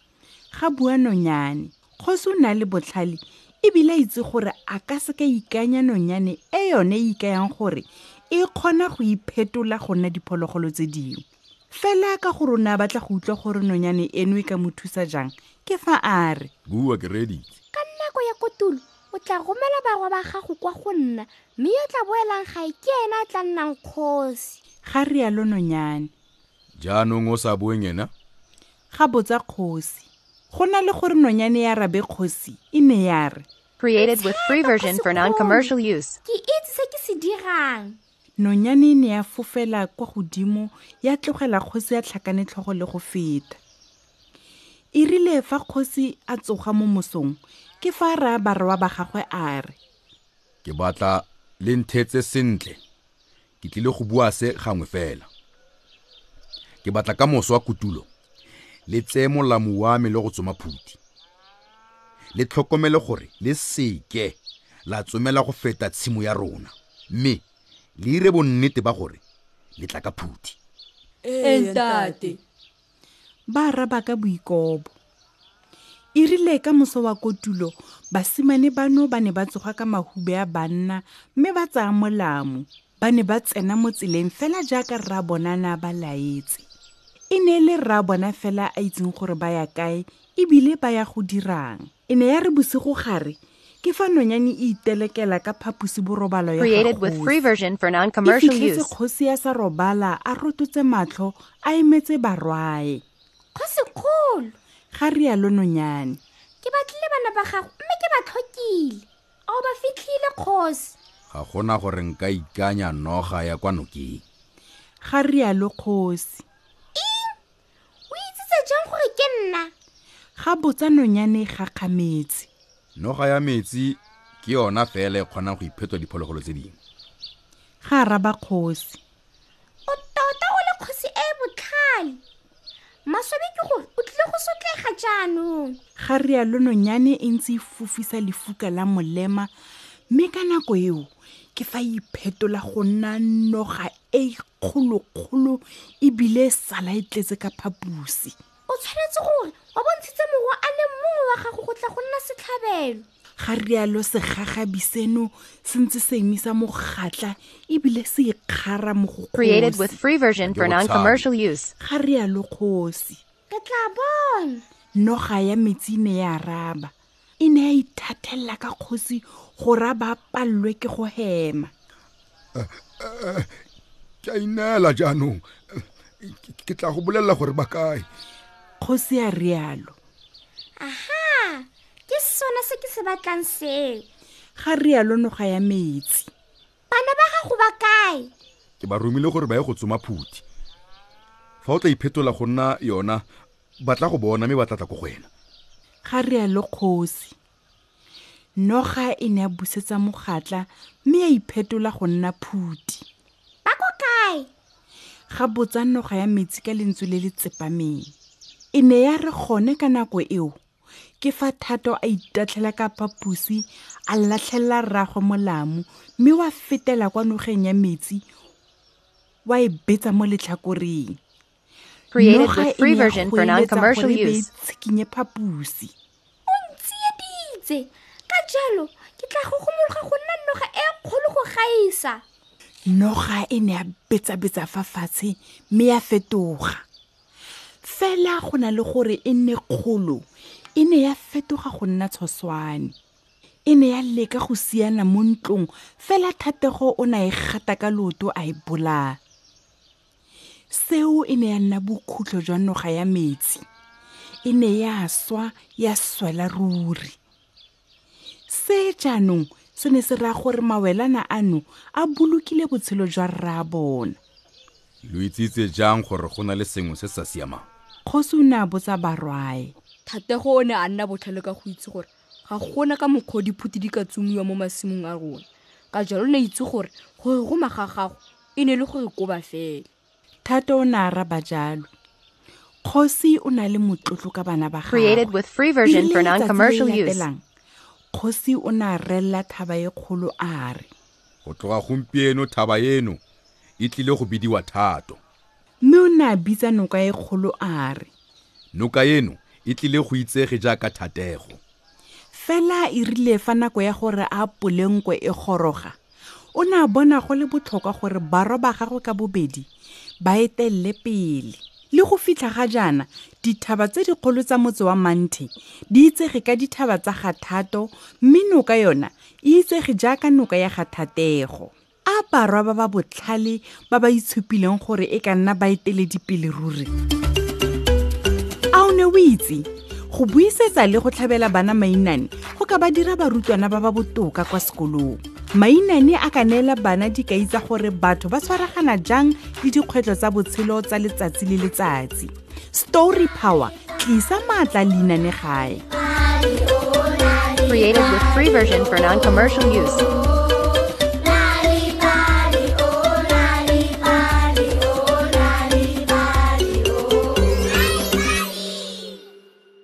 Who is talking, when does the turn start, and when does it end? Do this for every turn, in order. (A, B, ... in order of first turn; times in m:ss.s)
0:00.5-0:16.5 A
0:16.7-0:17.5 B
0:17.7-0:24.6 C
0:24.8-0:26.1 A
0:26.8-0:28.1 B
0:28.9-0:33.4 A
0:33.8-0:36.2 D
0:34.0-0:35.7 C
0:36.2-0:38.0 C
0:38.4-0:43.6 A
0:45.0-0:49.8 A
0:50.6-0:52.8 B
0:53.6-0:55.3 B
0:56.8-0:58.1 B
0:58.9-1:01.0 B
1:02.3-1:07.4 B
1:08.0-1:09.2 B
1:09.8-1:10.6 B
1:11.3-1:12.4 E
1:13.5-1:14.9 A
1:16.2-1:26.6 A
1:27.3-1:37.4 A
1:36.6-1:38.9 D
1:38.2-1:43.0 A
1:43.5-1:44.6 C
1:44.9-1:46.2 A
1:46.6-1:51.0 C
1:51.3-1:54.2 B
1:55.0-1:56.4 A
1:57.0-1:57.4 C
1:58.1-1:59.7 C
2:00.4-2:02.5 A
2:03.0-2:06.8 B
2:07.8-2:09.0 A
2:09.9-2:12.2 C
2:13.1-2:15.8 C
2:16.0-2:19.5 A
2:20.1-2:28.4 A
2:28.7-2:33.0 C
2:33.4-2:40.0 A
2:39.4-2:41.7 D
2:40.4-2:41.3 B
2:41.8-2:43.2 A
2:43.5-2:44.6 C
2:45.0-2:51.7 A
2:52.6-2:53.5 B
2:54.2-2:55.4 B
2:56.2-2:58.0 B
2:58.8-3:00.0 A
3:00.8-3:04.1 C
3:04.6-3:06.3 A
3:06.9-3:08.3 C
3:08.8-3:10.4 B
3:11.6-3:13.2 B
3:13.8-3:15.3 B
3:16.0-3:17.3 A
3:18.6-3:23.0 A
3:23.6-3:24.5 C
3:25.3-3:28.1 A
3:28.7-3:30.6 A
3:31.2-3:38.2 A
3:39.5-3:41.2 A
3:42.1-3:44.5 D
3:42.2-3:45.9 A
3:46.5-3:52.2 C
3:52.9-3:56.8 A
3:57.8-4:00.2 A
4:00.8-4:02.9 A
4:03.7-4:09.2 A
4:10.7-4:13.6 A
4:14.4-4:17.2 A
4:18.5-4:24.2 A
4:25.0-4:27.7 B
4:28.1-4:29.7 A
4:30.1-4:39.9 E
4:40.4-4:41.9 A
4:42.8-4:47.4 A
4:44.9-4:47.3 D
4:48.1-4:50.9 A
4:51.4-4:53.2 B
4:53.8-4:55.2 B
4:55.8-4:58.1 A
4:58.7-5:01.6 B
5:02.3-5:06.0 A
5:06.6-5:09.7 A
5:10.2-5:26.9 A
5:28.7-5:45.8 A
5:47.7-5:50.0 D